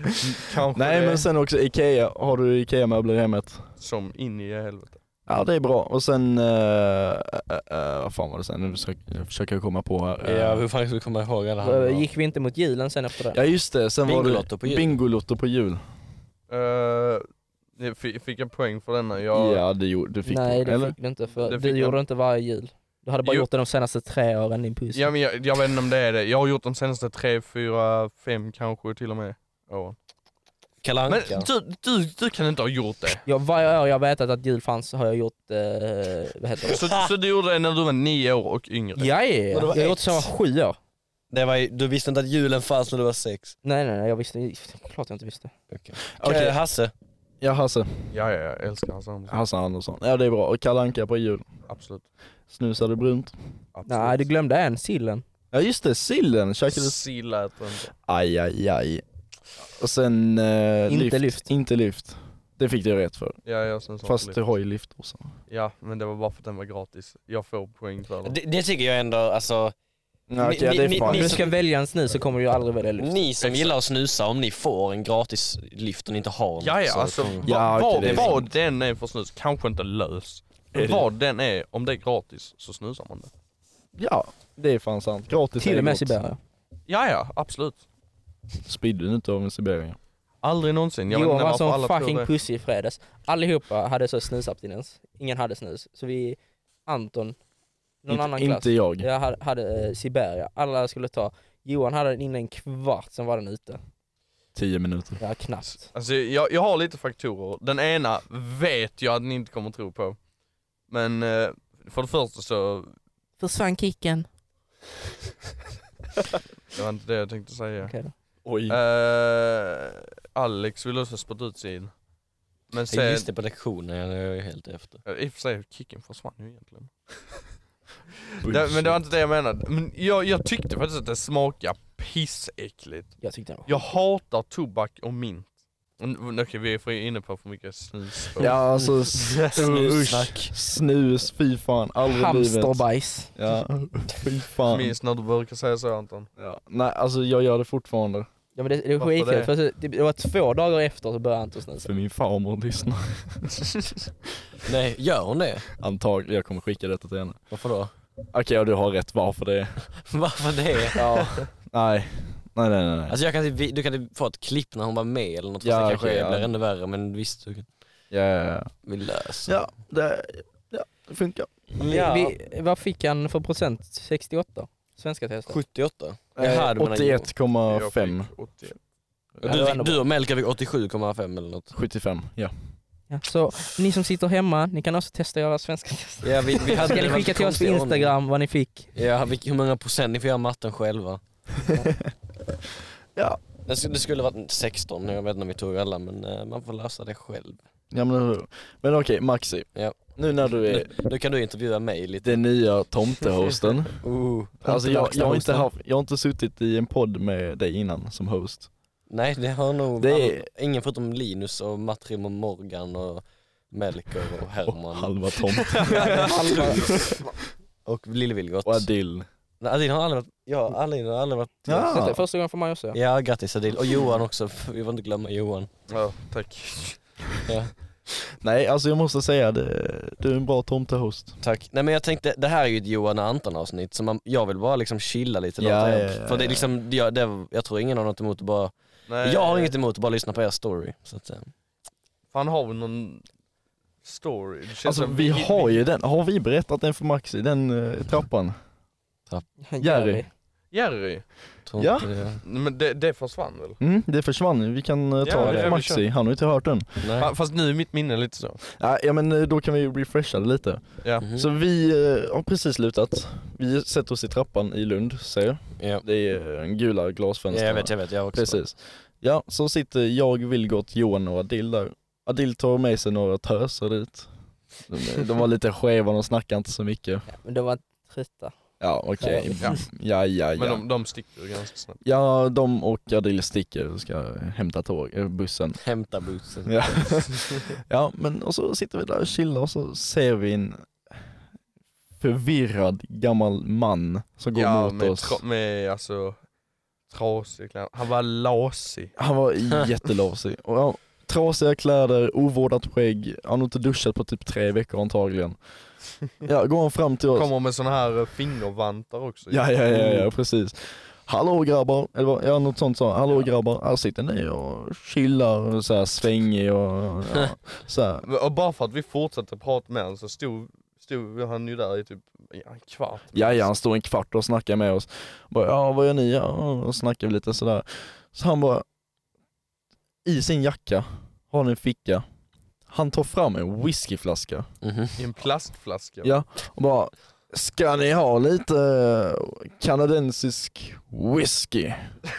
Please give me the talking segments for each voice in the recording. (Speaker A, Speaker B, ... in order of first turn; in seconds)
Speaker A: 0.2-1.2, 3.8-5.0, 16.5-19.6, 21.4-22.0, 24.9-29.9, 31.1-33.2, 36.7-39.1, 48.1-49.4, 51.7-52.0, 53.7-54.2, 56.7-57.9, 63.5-64.4, 65.5-68.3, 73.4-73.8, 76.6-83.3, 86.9-87.8, 90.4-92.3, 105.9-110.2, 110.9-112.9, 116.7-117.9, 118.7-121.9, 122.7-123.3, 125.0-126.9, 128.4-135.5, 136.0-138.5, 144.7-146.3, 149.0-149.5, 177.7-178.8, 215.7-216.6, 225.9-227.0, 239.1-239.8, 242.3-243.2, 244.0-245.8, 250.7-251.2, 252.4-253.8, 255.2-256.0, 257.2-258.6, 280.6-282.0, 294.5-296.4, 297.1-299.1, 307.3-309.7, 318.2-323.7, 335.2-336.4
Speaker B: 0.7-3.6, 5.3-10.6, 13.3-15.8, 19.3-20.9, 46.2-46.6, 47.4-48.1, 49.3-51.4, 52.5-53.3, 55.5-57.0, 58.0-59.0, 59.6-63.4, 64.0-65.3, 70.3-71.5, 77.4-78.5, 80.7-81.0, 84.0-86.2, 88.7-90.0, 98.1-99.1, 104.5-105.2, 118.4-118.8, 128.4-129.0, 138.4-142.8, 143.3-144.9, 146.4-148.3, 151.8-153.7, 155.8-157.4, 158.3-159.8, 160.9-163.2, 165.6-166.5, 168.1-168.7, 169.4-171.7, 176.4-178.3, 181.7-182.5, 191.7-192.1, 193.1-193.4, 197.9-200.9, 202.2-204.0, 204.6-208.7, 210.0-210.5, 214.7-217.1, 218.6-219.3, 221.7-222.2, 228.4-231.4, 235.6-236.7, 244.8-248.5, 249.8-250.2, 251.8-252.1, 253.8-257.1, 258.7-274.3, 274.9-277.2, 278.8-280.8, 282.0-285.8, 286.6-290.9, 292.2-295.4, 299.2-305.6, 306.4-307.5, 309.5-318.2, 323.3-328.8, 330.2-332.2, 332.9-334.6, 336.2-342.1
Speaker C: 10.2-12.1, 14.0-14.9, 30.8-31.5, 36.6-37.1, 39.5-40.3, 41.3-43.5, 45.7-46.9, 68.2-69.7, 70.4-71.5, 73.0-77.5, 78.0-78.4, 122.9-125.0, 138.4-140.5, 154.6-155.7, 157.5-157.9, 160.0-161.4, 163.1-167.7, 168.8-169.5, 171.8-172.3, 175.5-177.3, 179.4-181.7, 186.2-188.1, 188.9-191.2, 193.7-197.6, 199.7-202.4, 204.0-205.4, 209.1-216.8, 217.8-218.9, 219.6-222.0, 222.9-225.7, 227.5-227.7, 231.4-238.7, 239.2-241.5, 251.7-252.4, 255.3-255.8, 257.0-257.3, 261.2-261.5, 265.8-266.0, 267.5-268.6, 285.8-287.3, 309.9-310.3, 334.8-335.2
Speaker D: 11.6-13.4, 20.2-25.1, 33.2-36.8, 39.0-40.8, 43.6-45.5, 53.9-55.2, 60.9-61.4, 71.0-73.2, 85.6-86.4, 91.1-97.4, 98.0-103.8, 105.2-105.9, 113.4-114.3, 117.8-118.1, 133.2-133.9, 142.0-143.4, 148.5-151.9, 171.8-175.6, 179.4-180.0, 183.1-188.9, 205.2-205.5, 215.9-217.2, 221.8-223.0, 249.6-250.3, 277.3-278.5, 279.2-279.8